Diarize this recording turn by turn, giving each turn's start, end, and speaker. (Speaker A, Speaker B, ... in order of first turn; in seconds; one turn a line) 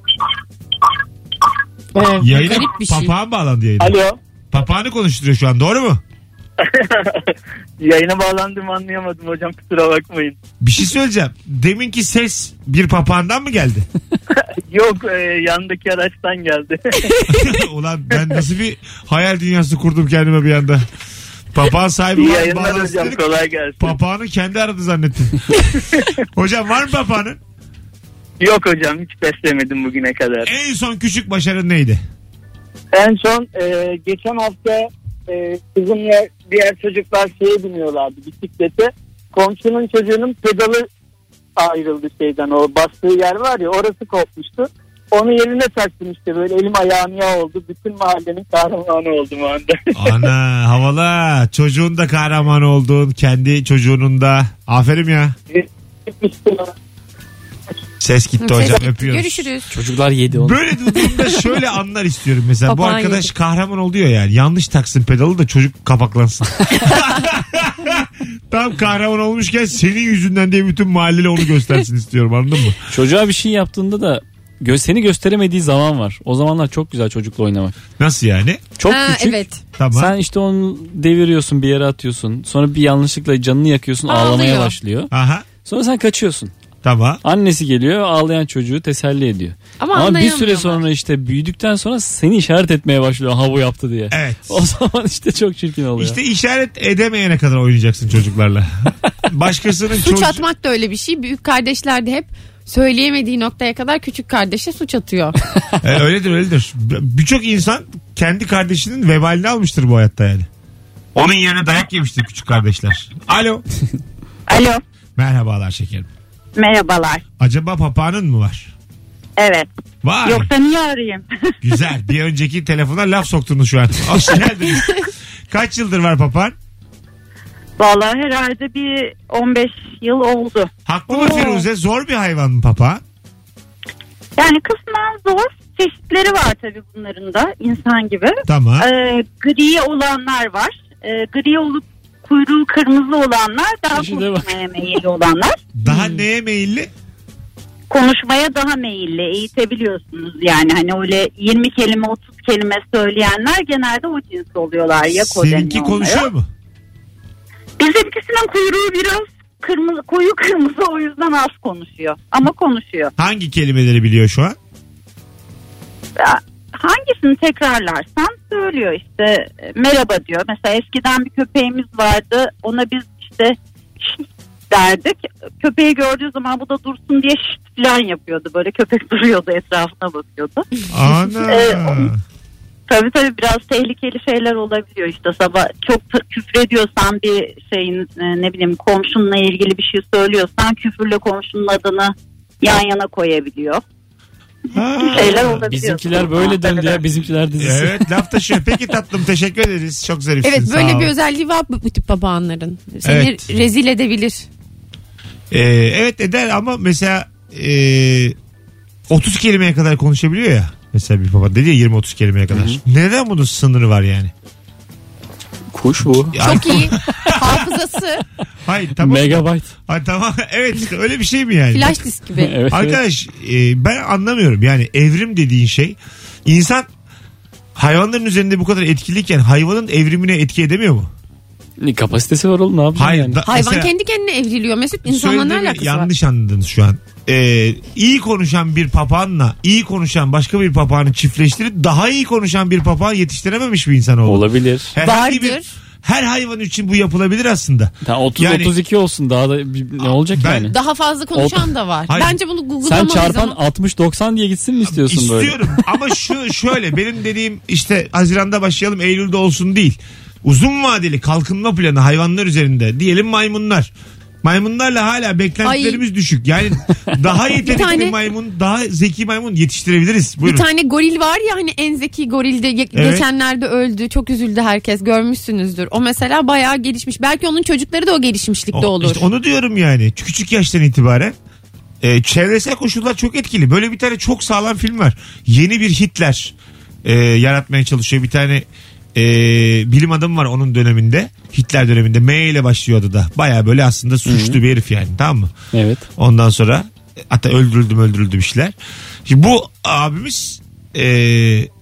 Speaker A: 1.9-3.1
Speaker B: 2.2-4.0
Speaker C: 3.8-4.2
Speaker B: 4.5-6.0
Speaker C: 6.6-7.3
Speaker C: 7.8-10.3
Speaker B: 10.6-13.9
Speaker C: 14.7-17.0
Speaker B: 17.3-20.9
Speaker B: 21.5-23.2
Speaker C: 22.1-23.9
Speaker B: 23.8-27.4
Speaker C: 28.4-30.5
Speaker B: 30.4-32.0
Speaker C: 32.9-40.9
Speaker C: 41.6-50.2
Speaker B: 49.9-55.4
Speaker C: 55.5-56.7
Speaker B: 58.0-59.5
Speaker A: 58.4-59.7
Speaker D: 59.7-60.6
Speaker B: 60.3-72.8
Speaker A: 62.7-63.3
Speaker D: 72.9-77.7
Speaker B: 78.0-78.8
Speaker D: 78.8-79.3
Speaker A: 78.9-79.6
Speaker B: 79.8-80.1
Speaker D: 79.9-85.1
Speaker A: 84.1-84.7
Speaker B: 85.1-85.5
Speaker D: 85.6-86.5
Speaker B: 86.8-87.2
Speaker D: 87.2-96.2
Speaker A: 89.8-90.8
Speaker B: 94.1-94.6
Speaker B: 96.0-100.4
Speaker A: 100.0-105.3
Speaker B: 105.8-110.5
Speaker B: 111.1-113.6
Speaker E: 114.5-114.8
Speaker B: 115.2-116.1
Speaker E: 116.5-117.2
Speaker B: 117.4-118.7
Speaker E: 119.4-119.7
Speaker B: 120.0-120.5
Speaker E: 120.2-121.3
Speaker B: 121.6-126.5
Speaker E: 127.8-131.6
Speaker B: 130.9-133.0
Speaker E: 134.4-145.6
Speaker B: 138.5-138.9
Speaker D: 143.9-144.6
Speaker B: 145.8-146.9
Speaker D: 145.9-146.2
Speaker E: 147.9-156.3
Speaker B: 155.2-156.5
Speaker E: 157.8-163.1
Speaker B: 163.2-164.6
Speaker E: 166.2-180.6
Speaker B: 180.9-182.2
Speaker E: 181.4-182.1
Speaker E: 182.9-193.8
Speaker B: 194.7-195.6
Speaker E: 195.0-197.0
Speaker D: 195.2-198.1
Speaker B: 197.6-201.1
Speaker A: 200.4-204.4
Speaker B: 203.0-203.6
Speaker B: 205.5-208.3
Speaker B: 209.1-214.3
Speaker D: 212.5-212.8
Speaker D: 215.7-216.4
Speaker B: 216.3-217.6
Speaker A: 216.4-218.2
Speaker B: 218.7-222.0
Speaker D: 219.0-219.7
Speaker A: 221.7-222.5
Speaker D: 222.4-223.0
Speaker B: 222.7-226.9
Speaker B: 227.8-231.1
Speaker D: 231.8-233.4
Speaker B: 232.9-233.9
Speaker A: 233.4-236.1
Speaker B: 235.1-248.7
Speaker D: 244.2-244.9
Speaker A: 245.0-245.7
Speaker D: 248.0-250.7
Speaker B: 250.0-250.7
Speaker A: 250.7-253.6
Speaker D: 251.3-251.7
Speaker B: 252.1-252.4
Speaker D: 252.8-255.6
Speaker B: 254.9-263.9
Speaker B: 264.4-270.6
Speaker A: 265.6-266.0
Speaker A: 267.6-268.1
Speaker A: 270.4-279.3
Speaker B: 272.9-273.2
Speaker B: 278.7-281.3
Speaker B: 282.0-295.5
Speaker D: 294.2-294.6
Speaker D: 295.7-296.1
Speaker B: 296.2-298.7
Speaker B: 299.2-301.7